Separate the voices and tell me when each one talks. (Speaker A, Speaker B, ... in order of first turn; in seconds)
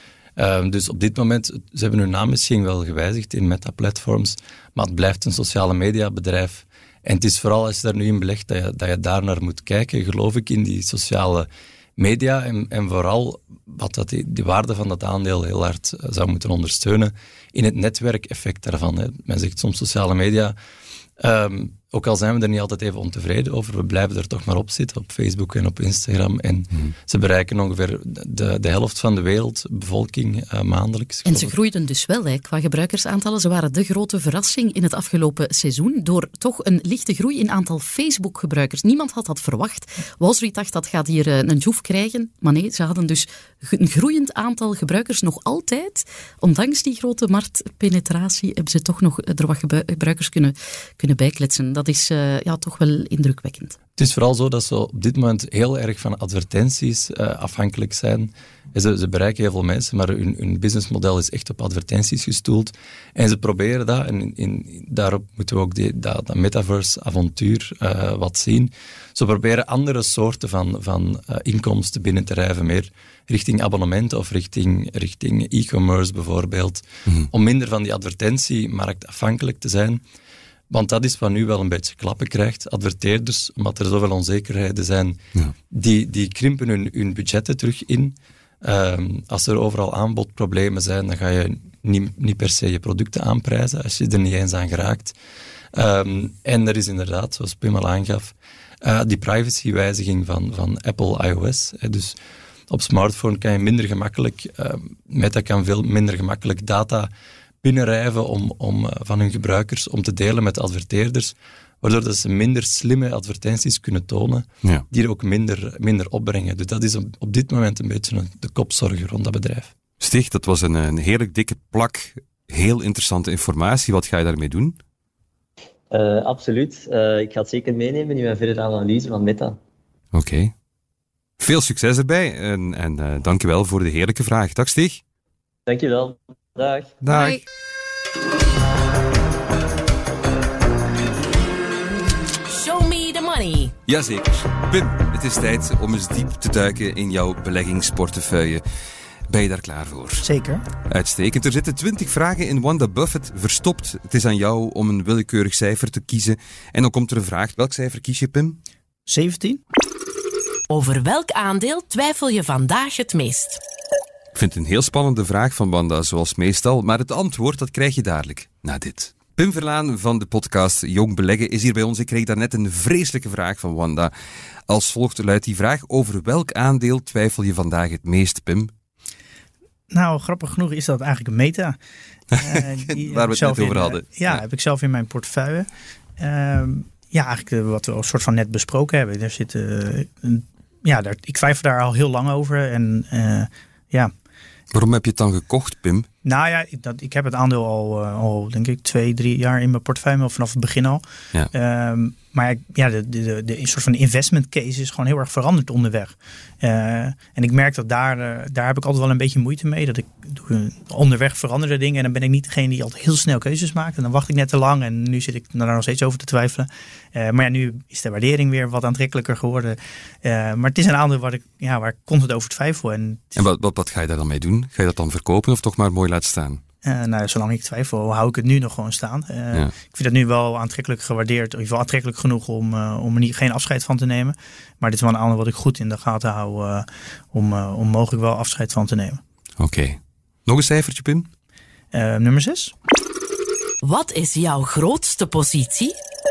Speaker A: 0.4-20.6, 21.2-31.5, 54.0-80.0, 80.7-85.2, 85.7-95.2, 95.7-102.2, 102.7-107.1, 107.6-119.7
Speaker B: 31.2-53.8
Speaker C: 120.0-124.8, 130.1-130.5, 131.4-135.0, 137.0-137.4, 143.9-148.6, 149.3-150.3, 150.9-158.6, 164.3-174.1, 174.7-178.7, 182.4-184.4, 194.7-196.1, 223.3-226.6, 239.6-241.3
Speaker D: 125.9-129.6, 135.7-137.0
Speaker E: 137.1-137.4, 142.5-143.7, 160.7-163.6, 243.8-245.9
Speaker F: 150.2-150.6, 159.1-159.6, 179.9-181.8, 182.4-185.7, 186.2-194.1, 196.2-223.3, 226.8-239.2, 241.9-242.7